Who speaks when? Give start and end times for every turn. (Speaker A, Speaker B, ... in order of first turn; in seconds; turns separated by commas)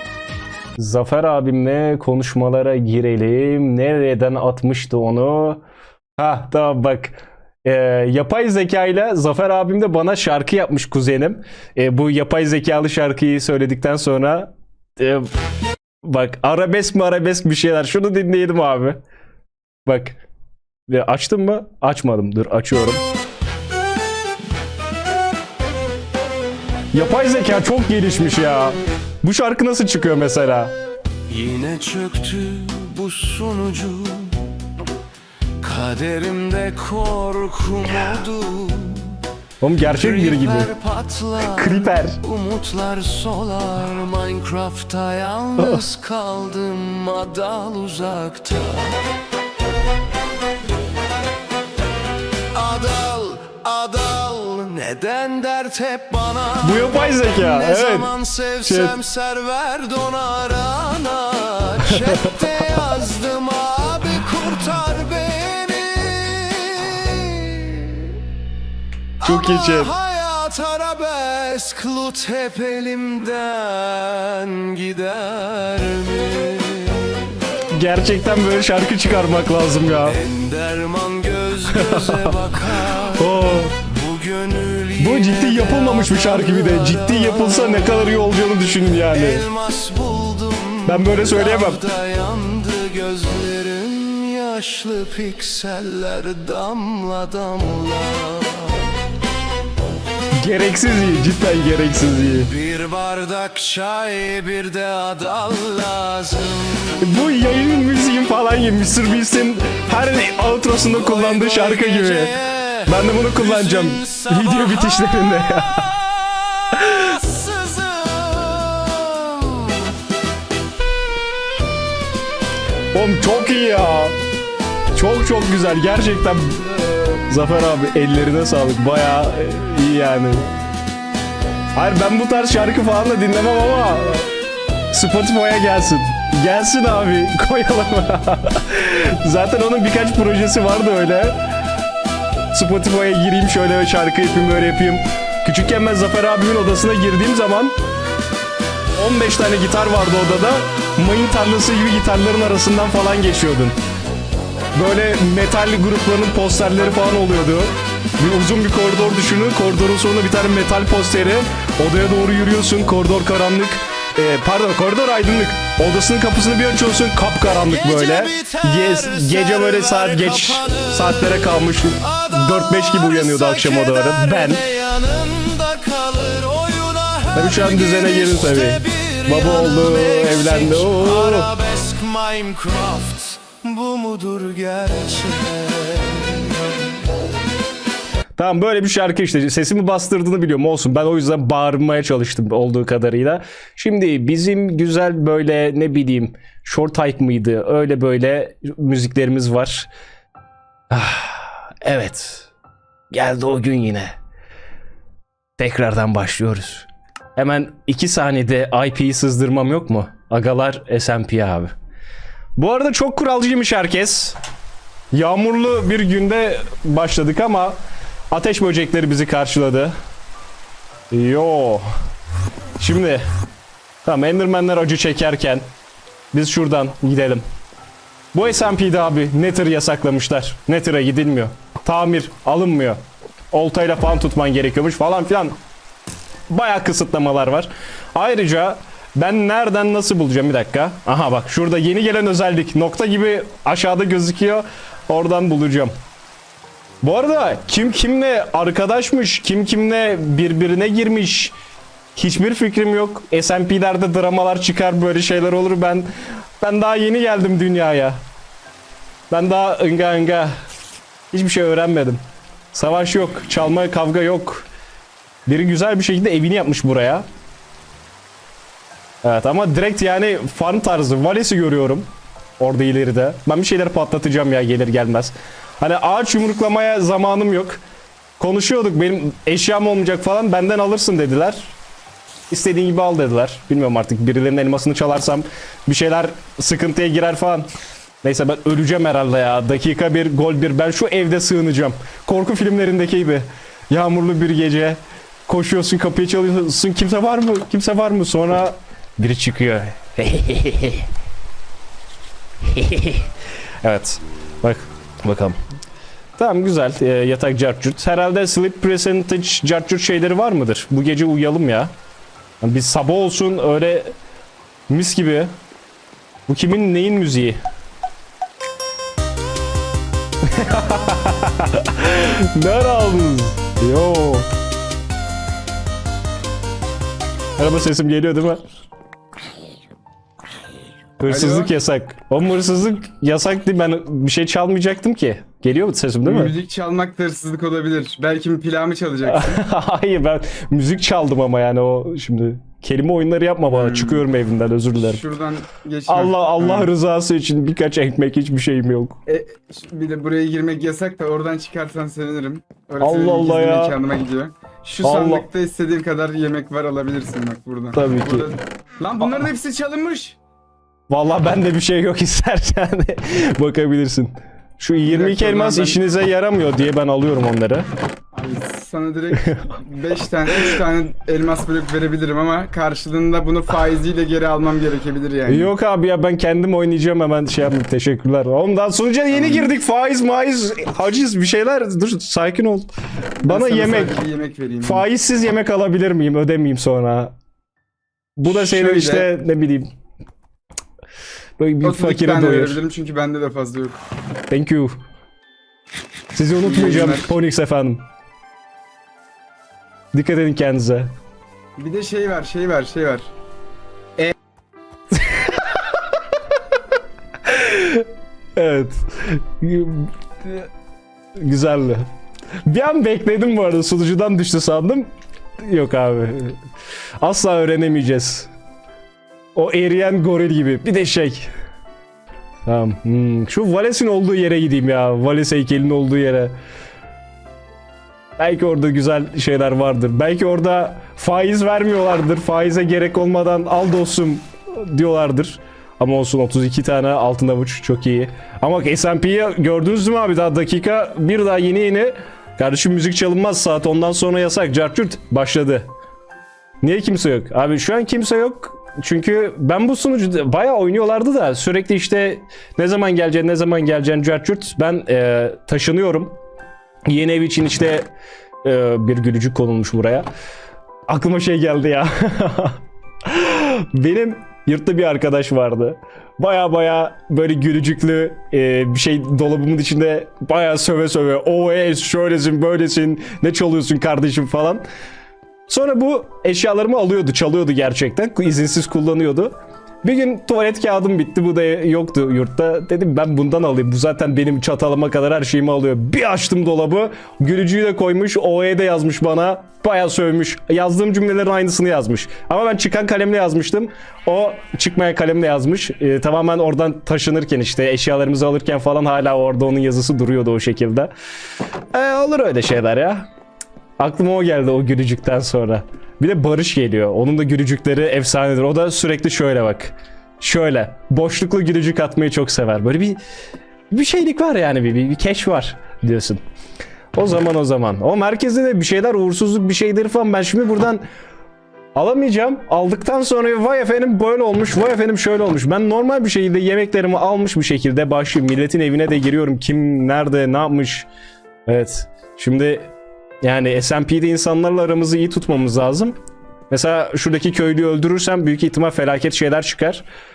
Speaker A: 0.8-5.6, Speaker A: 6.2-15.3, Speaker A: 16.0-19.0, Speaker A: 19.9-20.2, Speaker A: 20.9-23.0, Speaker A: 26.9-30.7, Speaker B: 31.3-34.5, Speaker B: 35.6-39.2, Speaker A: 39.6-40.7, Speaker B: 39.8-49.0, Speaker A: 41.4-42.2, Speaker A: 45.6-45.9, Speaker B: 52.5-68.2, Speaker A: 56.6-59.0, Speaker B: 69.2-77.5, Speaker A: 69.2-69.9, Speaker A: 77.7-80.2, Speaker B: 80.0-98.9, Speaker A: 81.7-83.8, Speaker A: 85.0-89.5, Speaker A: 90.8-91.8, Speaker A: 100.4-102.5, Speaker B: 102.3-107.1, Speaker A: 107.0-115.9, Speaker B: 110.8-120.0, Speaker A: 116.7-117.2, Speaker A: 122.9-124.2, Speaker A: 124.9-130.5, Speaker A: 131.7-134.2, Speaker A: 134.9-141.4, Speaker A: 142.5-147.7, Speaker A: 149.0-153.7, Speaker A: 154.7-174.6, Speaker B: 167.6-186.8, Speaker A: 177.3-181.5, Speaker A: 188.4-199.9, Speaker A: 200.9-202.5, Speaker A: 203.1-204.1, Speaker A: 205.6-211.7, Speaker A: 212.6-214.4, Speaker A: 215.1-217.8, Speaker A: 218.3-219.9, Speaker A: 221.1-221.8, Speaker A: 222.8-223.2, Speaker A: 224.0-225.7, Speaker A: 226.3-227.4, Speaker A: 228.3-233.0, Speaker A: 233.5-235.6, Speaker A: 236.5-245.9, Speaker A: 247.0-251.5, Speaker A: 252.1-256.1, Speaker A: 256.6-258.2, Speaker A: 259.3-260.5, Speaker A: 261.3-262.2, Speaker A: 262.7-264.7, Speaker A: 265.5-267.2, Speaker A: 269.2-272.1, Speaker A: 272.6-277.8, Speaker A: 278.4-281.8, Speaker A: 282.5-287.7, Speaker A: 288.2-301.1, Speaker A: 302.6-303.3, Speaker A: 303.8-305.6, Speaker A: 306.4-311.9, Speaker A: 312.6-314.1, Speaker A: 314.9-315.5, Speaker A: 316.5-317.6, Speaker A: 320.4-324.5, Speaker A: 327.6-328.6, Speaker A: 331.2-336.5, Speaker C: 331.3-331.7, Speaker C: 336.2-339.6, Speaker A: 339.2-345.2, Speaker C: 343.7-344.2, Speaker C: 344.9-346.9, Speaker A: 346.1-349.2, Speaker C: 349.2-360.4, Speaker A: 353.0-354.0, Speaker A: 355.0-355.4, Speaker A: 357.9-358.5, Speaker A: 361.1-367.9, Speaker C: 365.0-366.0, Speaker C: 368.3-375.7, Speaker A: 375.5-382.9, Speaker C: 379.3-379.7, Speaker C: 383.4-385.1, Speaker A: 383.4-384.2, Speaker A: 384.8-387.3, Speaker A: 388.4-389.9, Speaker C: 388.4-389.3, Speaker A: 391.6-392.8, Speaker C: 391.8-394.0, Speaker A: 394.5-395.0, Speaker A: 396.3-398.0, Speaker C: 396.6-397.3, Speaker A: 400.1-401.1, Speaker C: 401.8-403.2, Speaker A: 405.2-405.6, Speaker A: 407.4-410.7, Speaker A: 411.4-412.1, Speaker A: 412.6-416.6, Speaker A: 417.2-418.5, Speaker A: 419.5-421.5, Speaker A: 422.6-426.5, Speaker A: 428.4-445.9, Speaker A: 446.8-456.3, Speaker A: 457.1-458.1, Speaker A: 458.6-460.2, Speaker A: 461.1-474.8, Speaker A: 475.7-501.1, Speaker A: 501.9-503.3, Speaker A: 504.0-513.2, Speaker A: 513.9-516.4, Speaker A: 517.1-521.0, Speaker A: 521.9-531.1, Speaker A: 531.7-532.9, Speaker A: 533.4-536.1, Speaker A: 536.7-540.0